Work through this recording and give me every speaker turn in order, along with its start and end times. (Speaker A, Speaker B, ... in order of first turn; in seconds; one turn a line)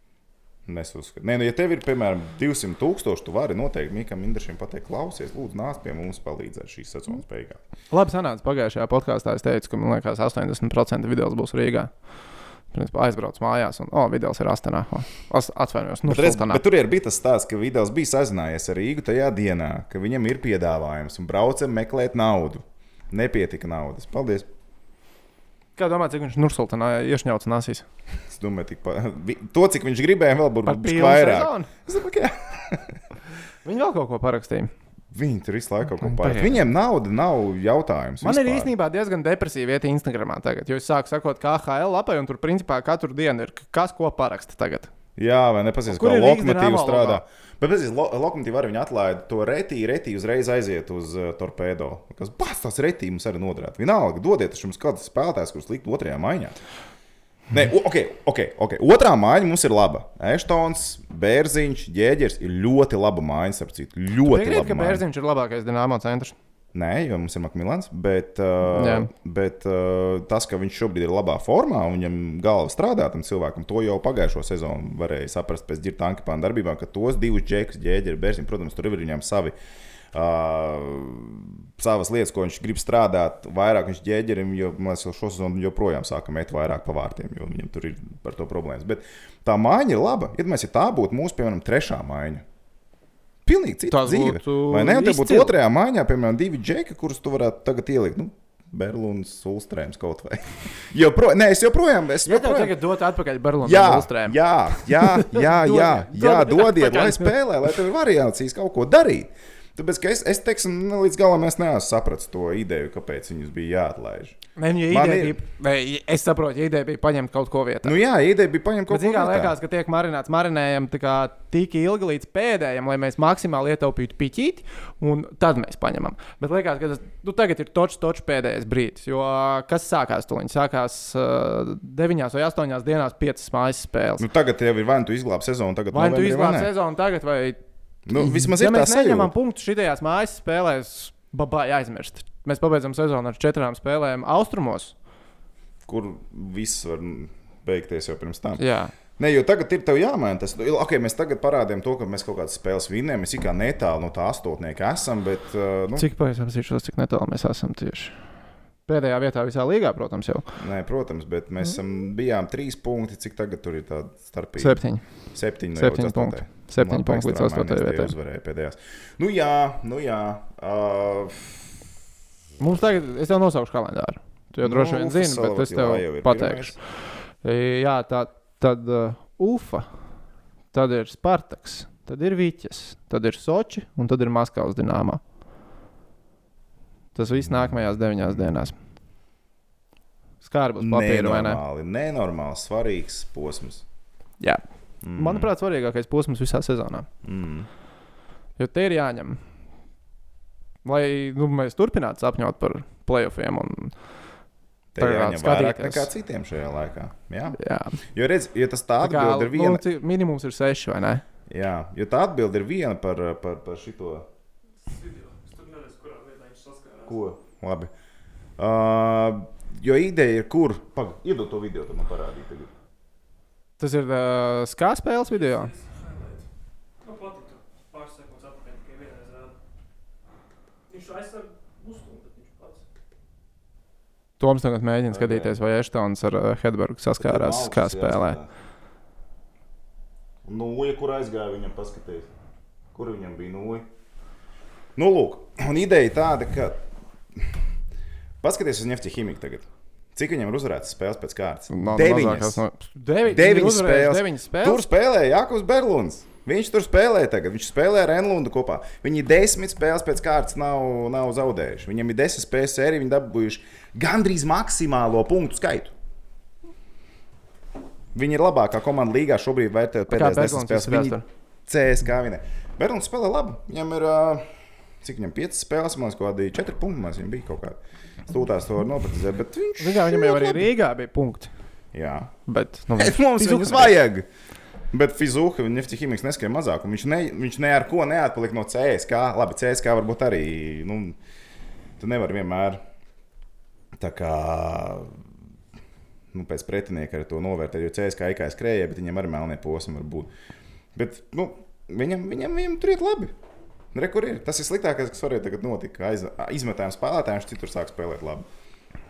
Speaker A: 0.7-7.6
Speaker B: 7.9-11.9
Speaker B: 12.7-16.6
Speaker A: 16.1-24.5
Speaker B: 25.8-27.8
Speaker A: 28.3-33.0
Speaker B: 30.6-31.7
Speaker B: 33.6-34.7
Speaker A: 35.1-38.7
Speaker B: 36.0-36.6
Speaker B: 38.2-44.9
Speaker A: 45.1-56.6
Speaker B: 45.9-47.2
Speaker A: 57.5-65.0
Speaker B: 64.2-66.3
Speaker A: 66.7-79.5
Speaker B: 68.6-69.1
Speaker A: 80.1-92.4
Speaker A: 93.5-102.8
Speaker B: 93.9-95.5
Speaker B: 102.2-107.4
Speaker A: 103.6-114.4
Speaker B: 114.6-118.0
Speaker A: 114.9-115.4
Speaker A: 117.8-119.5
Speaker B: 118.9-134.2
Speaker A: 134.2-136.7
Speaker B: 135.9-137.6
Speaker A: 138.1-139.3
Speaker B: 138.1-144.9
Speaker A: 145.8-148.6
Speaker B: 148.6-148.9
Speaker A: 149.2-156.1
Speaker B: 155.9-158.1
Speaker B: 158.9-160.4
Speaker A: 160.6-164.8
Speaker B: 164.6-165.0
Speaker A: 165.3-171.7
Speaker B: 165.7-168.1
Speaker B: 172.6-176.8
Speaker A: 174.6-176.8
Speaker B: 177.4-179.9
Speaker B: 180.7-185.2
Speaker B: 187.1-188.7
Speaker B: 190.4-191.6
Speaker A: 190.8-193.8
Speaker A: 195.0-195.5
Speaker B: 195.1-197.1
Speaker A: 197.2-197.7
Speaker B: 198.6-199.4
Speaker B: 200.8-203.9
Speaker A: 204.9-207.6
Speaker B: 205.0-206.1
Speaker B: 207.6-208.0
Speaker A: 208.1-209.8
Speaker B: 209.0-211.2
Speaker A: 211.5-214.2
Speaker C: 214.8-217.2
Speaker A: 217.1-217.9
Speaker A: 218.6-222.7
Speaker B: 223.8-225.7
Speaker C: 225.4-226.4
Speaker C: 227.0-229.6
Speaker C: 230.9-232.8
Speaker B: 234.4-238.4
Speaker A: 235.1-235.6
Speaker A: 237.2-238.5
Speaker A: 240.4-242.3
Speaker A: 242.9-243.9
Speaker A: 244.9-247.6
Speaker A: 248.4-252.6
Speaker B: 251.7-254.8
Speaker A: 253.2-265.9
Speaker A: 268.1-274.4
Speaker B: 270.1-271.2
Speaker A: 275.0-280.7
Speaker B: 279.8-281.5
Speaker A: 281.9-282.3
Speaker B: 282.5-284.0
Speaker A: 282.9-284.3
Speaker A: 284.9-291.2
Speaker A: 292.0-292.8
Speaker A: 293.9-295.2
Speaker A: 296.3-300.3
Speaker A: 300.9-303.3
Speaker A: 303.9-308.5